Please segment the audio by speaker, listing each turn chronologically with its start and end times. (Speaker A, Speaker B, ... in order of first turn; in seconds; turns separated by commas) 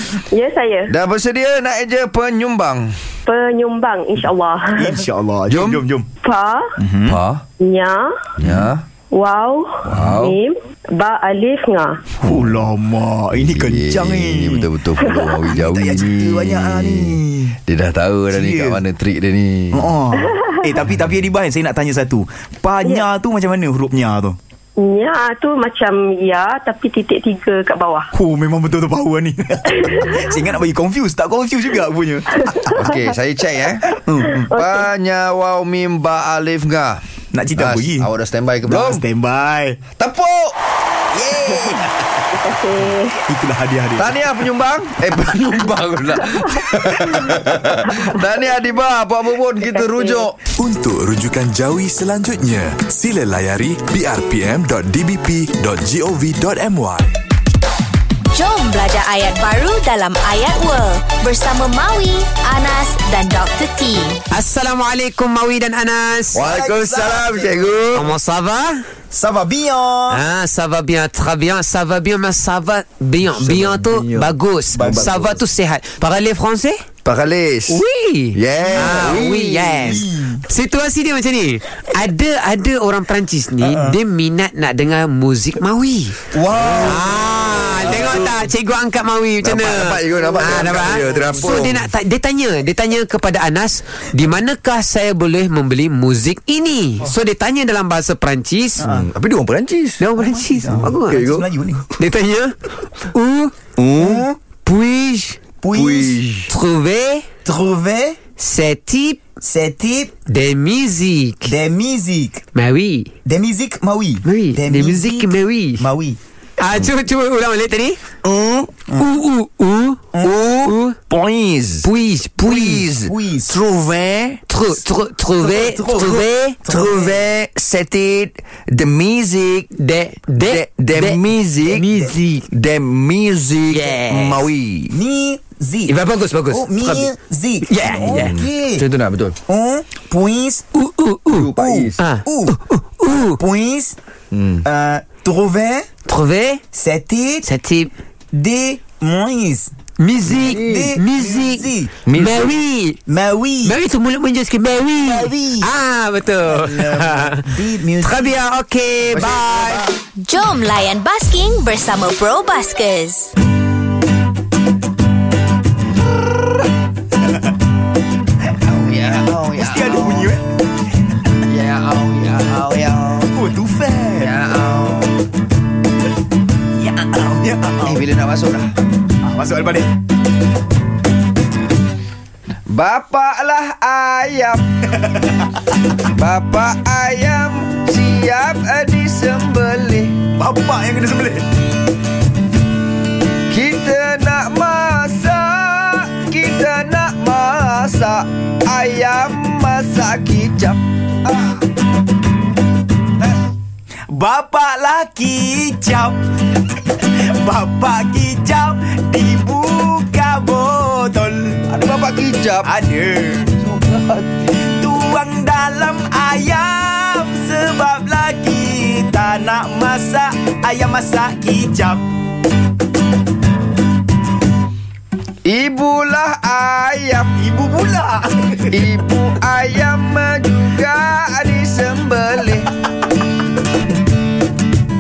Speaker A: 0.3-0.9, Speaker B: 0.9-2.9, Speaker A: 3.2-5.0, Speaker C: 4.8-6.1, Speaker B: 5.5-5.8, Speaker A: 6.2-6.6, Speaker C: 6.8-7.2, Speaker B: 7.0-7.4, Speaker A: 7.6-8.1, Speaker B: 8.4-8.8, Speaker A: 9.1-12.0, Speaker B: 9.8-10.4, Speaker C: 12.2-14.7, Speaker B: 12.3-12.6, Speaker B: 13.3-19.9, Speaker A: 15.0-15.3, Speaker C: 15.4-17.6, Speaker C: 18.3-18.8, Speaker C: 19.7-24.4, Speaker A: 20.2-20.6, Speaker A: 24.8-28.1, Speaker C: 28.1-32.8, Speaker A: 29.7-30.2, Speaker A: 32.5-33.1, Speaker B: 32.7-33.9, Speaker C: 34.0-34.5, Speaker A: 34.3-34.9, Speaker B: 34.5-37.0, Speaker C: 37.3-38.1, Speaker B: 37.5-39.0, Speaker C: 38.6-39.8, Speaker B: 40.0-40.5, Speaker C: 41.1-41.9, Speaker A: 42.3-43.2, Speaker C: 43.3-44.2, Speaker B: 44.0-50.4, Speaker A: 47.9-48.1, Speaker A: 49.8-50.2, Speaker D: 50.5-57.1, Speaker E: 58.3-64.2, Speaker F: 64.3-66.5, Speaker B: 66.3-68.1, Speaker C: 66.3-67.7, Speaker F: 67.9-68.8, Speaker C: 69.1-70.2, Speaker F: 70.1-76.8, Speaker B: 73.4-75.3, Speaker C: 74.7-75.2, Speaker B: 77.0-77.8, Speaker F: 77.7-98.8, Speaker B: 78.3-80.0, Speaker C: 78.8-79.0, Speaker C: 79.9-80.4, Speaker C: 83.7-83.9, Speaker C: 86.3-86.9, Speaker B: 86.7-87.0, Speaker B: 87.8-88.3, Speaker B: 89.4-91.9, Speaker C: 98.8-99.1, Speaker B: 98.9-100.0, Speaker F: 100.0-101.2, Speaker C: 100.2-101.9, Speaker B: 100.7-101.4, Speaker F: 102.0-102.5, Speaker F: 103.1-103.6, Speaker B: 103.8-104.3, Speaker C: 104.0-104.3, Speaker F: 104.5-105.4, Speaker C: 105.6-106.2, Speaker B: 105.7-106.5, Speaker F: 106.5-107.3, Speaker C: 107.5-108.2, Speaker F: 108.3-109.2, Speaker C: 109.4-110.1, Speaker F: 110.2-111.5, Speaker C: 111.4-112.4, Speaker F: 112.5-113.1, Speaker C: 113.2-116.2, Speaker F: 114.2-115.9, Speaker F: 116.6-118.0, Speaker F: 119.0-121.0, Speaker B: 120.6-121.9, Speaker F: 121.8-122.9, Speaker B: 122.4-124.4, Speaker C: 123.0-123.5, Speaker F: 124.5-126.6, Speaker C: 125.8-126.1, Speaker B: 126.6-129.7, Speaker C: 126.7-127.0, Speaker F: 129.8-132.4, Speaker B: 130.4-131.9, Speaker B: 132.5-135.0, Speaker F: 133.7-134.5, Speaker C: 134.9-135.9, Speaker F: 135.9-137.1, Speaker C: 136.5-138.8, Speaker F: 137.6-138.3, Speaker B: 138.0-139.3, Speaker C: 139.5-140.6, Speaker F: 140.7-143.4, Speaker B: 141.3-142.0, Speaker C: 141.6-142.6, Speaker C: 143.4-143.9, Speaker B: 144.3-144.6, Speaker C: 144.6-145.8, Speaker F: 146.1-146.6, Speaker C: 146.7-147.4, Speaker F: 147.4-147.9, Speaker C: 148.3-149.7, Speaker F: 150.0-153.0, Speaker B: 150.3-150.9, Speaker C: 150.6-151.9, Speaker B: 152.1-152.5, Speaker C: 153.1-153.7, Speaker F: 153.6-159.8, Speaker C: 155.0-155.7, Speaker C: 157.5-158.3, Speaker B: 159.1-159.9, Speaker E: 160.2-163.3, Speaker B: 168.5-170.3, Speaker C: 169.5-170.4, Speaker B: 171.5-173.3, Speaker C: 173.3-174.3, Speaker B: 174.2-175.1, Speaker C: 176.8-178.0, Speaker B: 177.8-178.7, Speaker C: 179.2-179.9, Speaker B: 182.7-184.6, Speaker C: 185.0-185.3, Speaker B: 186.1-190.2, Speaker C: 190.4-191.4, Speaker B: 193.5-201.6, Speaker B: 203.2-203.4, Speaker C: 204.1-206.2, Speaker C: 206.9-211.6, Speaker B: 211.7-212.8, Speaker C: 212.6-213.5, Speaker B: 213.6-214.4, Speaker C: 214.6-222.0, Speaker B: 225.4-227.3, Speaker C: 227.3-228.8, Speaker B: 228.7-232.7